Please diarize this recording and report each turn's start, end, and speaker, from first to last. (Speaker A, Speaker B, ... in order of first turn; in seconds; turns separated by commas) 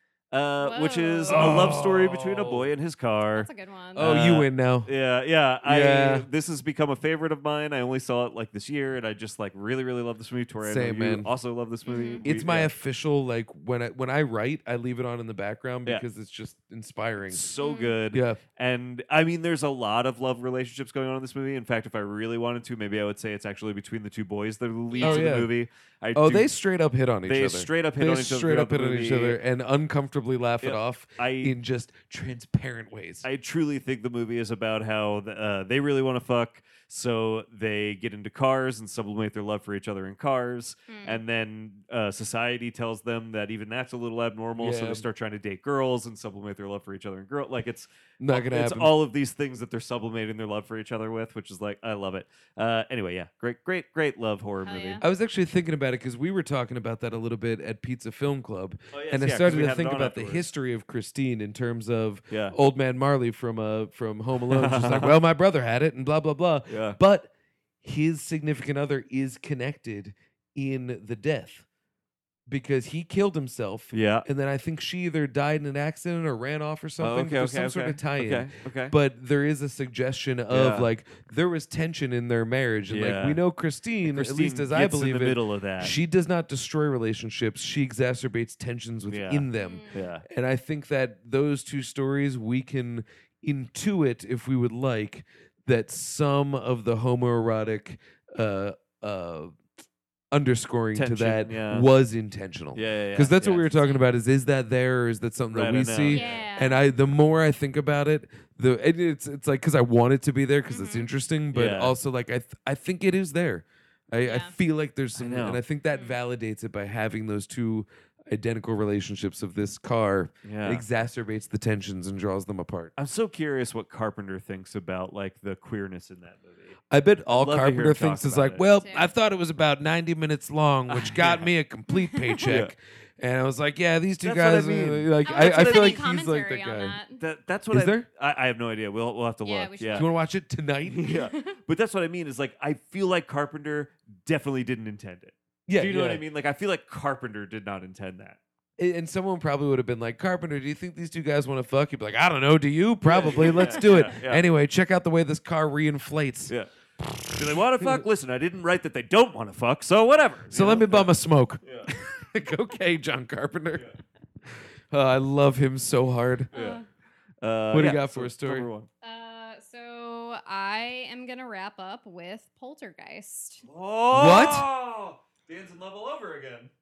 Speaker A: 0.3-12.7, Speaker B: 0.6-1.5, Speaker C: 1.3-2.7, Speaker B: 3.4-4.1, Speaker C: 4.0-4.9, Speaker C: 5.6-6.3, Speaker C: 10.6-11.3, Speaker B: 11.9-12.2, Speaker C: 12.2-17.4, Speaker A: 17.3-26.5, Speaker B: 17.6-18.0, Speaker C: 18.1-18.4, Speaker B: 24.9-25.3, Speaker C: 25.0-25.5, Speaker C: 26.1-33.3, Speaker A: 27.3-29.4, Speaker A: 30.6-31.6, Speaker A: 33.2-55.0, Speaker B: 40.9-41.2, Speaker C: 44.6-45.1, Speaker C: 48.2-49.0, Speaker B: 54.6-55.0, Speaker C: 55.0-67.3, Speaker A: 58.9-60.5, Speaker A: 62.3-62.5, Speaker A: 64.5-65.2, Speaker A: 66.7-67.0, Speaker C: 67.8-71.7, Speaker C: 72.5-99.6, Speaker A: 73.9-74.2, Speaker A: 77.0-79.0, Speaker A: 80.5-80.9, Speaker A: 82.9-83.4, Speaker A: 84.0-86.0, Speaker A: 89.1-90.2, Speaker B: 89.5-90.1, Speaker C: 100.3-122.9, Speaker A: 101.0-101.9, Speaker A: 102.8-103.7, Speaker A: 105.5-106.4, Speaker B: 106.1-106.8, Speaker B: 110.7-111.1, Speaker A: 111.5-112.0, Speaker B: 114.2-114.5, Speaker A: 115.2-115.6, Speaker B: 115.9-116.2, Speaker A: 120.5-120.8, Speaker A: 123.0-126.8, Speaker C: 126.9-137.0, Speaker A: 127.3-128.7, Speaker B: 128.7-129.1, Speaker A: 130.9-131.5, Speaker B: 131.9-132.5, Speaker A: 132.5-132.7, Speaker A: 134.2-136.0, Speaker B: 135.3-137.2, Speaker A: 137.2-140.1, Speaker C: 137.7-138.1, Speaker B: 139.4-140.1, Speaker C: 139.9-141.1, Speaker A: 140.9-148.4, Speaker B: 141.1-141.6, Speaker C: 145.7-146.2, Speaker C: 148.8-158.0, Speaker A: 153.0-154.4, Speaker A: 157.3-161.1, Speaker C: 160.5-163.9, Speaker A: 161.6-161.9, Speaker C: 164.5-166.5, Speaker A: 166.5-166.8, Speaker B: 166.5-166.8, Speaker A: 167.4-168.9, Speaker C: 167.7-168.7, Speaker B: 169.0-173.7, Speaker A: 173.7-176.7, Speaker C: 174.1-174.7